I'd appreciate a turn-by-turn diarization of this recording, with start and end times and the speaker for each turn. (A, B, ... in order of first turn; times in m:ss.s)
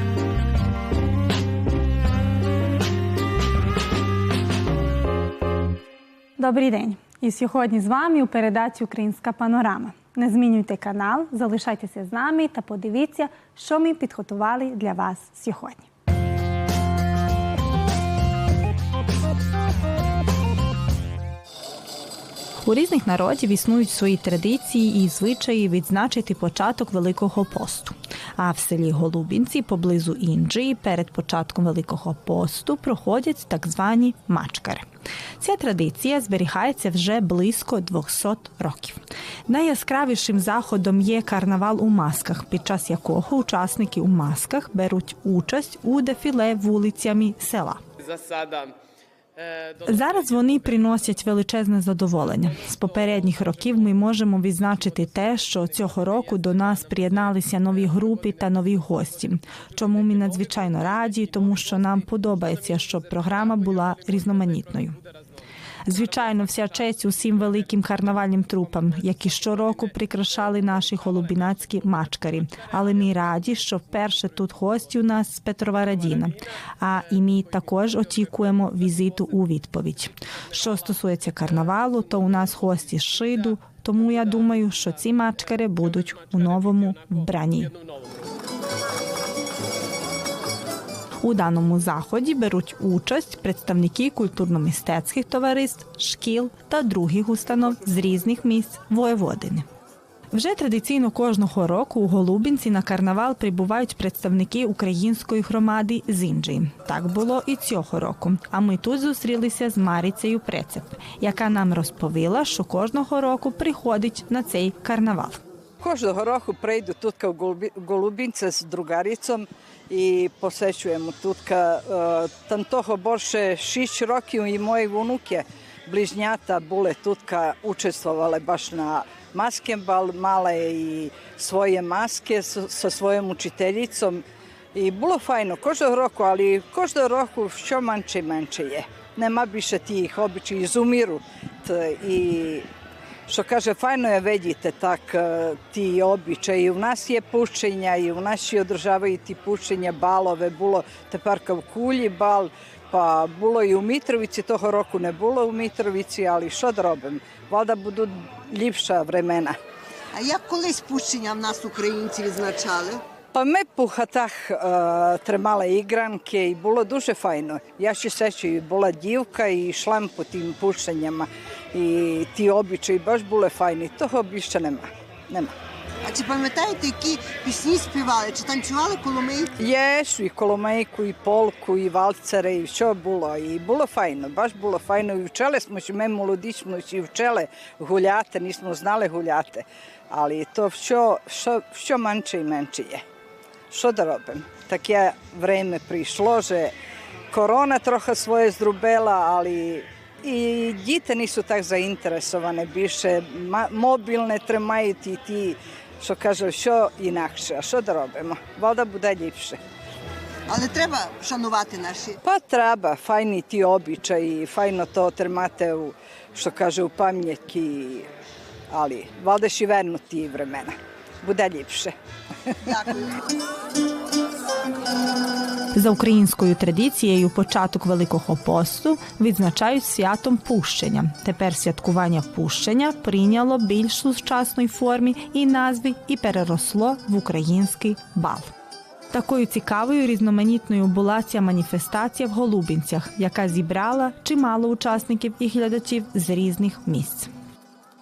0:06.4-0:15.9 A
0:22.6-0:34.8 B
0:35.4-0:47.8 B
0:48.0-0:48.7 C
0:49.4-0:51.4 C
0:49.8-1:05.0 B
0:52.2-0:59.1 C
0:59.8-1:05.2 C
1:05.8-1:27.7 B
1:05.9-1:12.0 C
1:12.7-1:14.4 C
1:15.7-1:16.3 C
1:16.9-1:19.6 C
1:20.5-1:28.0 C
1:31.2-1:39.6 B
1:40.3-1:55.4 B
1:55.8-2:14.2 D
2:14.7-2:22.7 D
2:23.3-2:39.6 D
2:40.1-2:43.0 E
2:43.3-2:55.5 D
2:56.0-2:59.5 E
2:59.6-3:13.0 D
3:13.7-3:16.7 D
3:17.3-3:29.6 D
3:30.5-3:32.2 E
3:32.2-3:38.1 D
3:38.7-3:41.9 D
3:42.7-3:42.9 E
3:45.7-3:58.5 B
3:59.1-4:07.3 B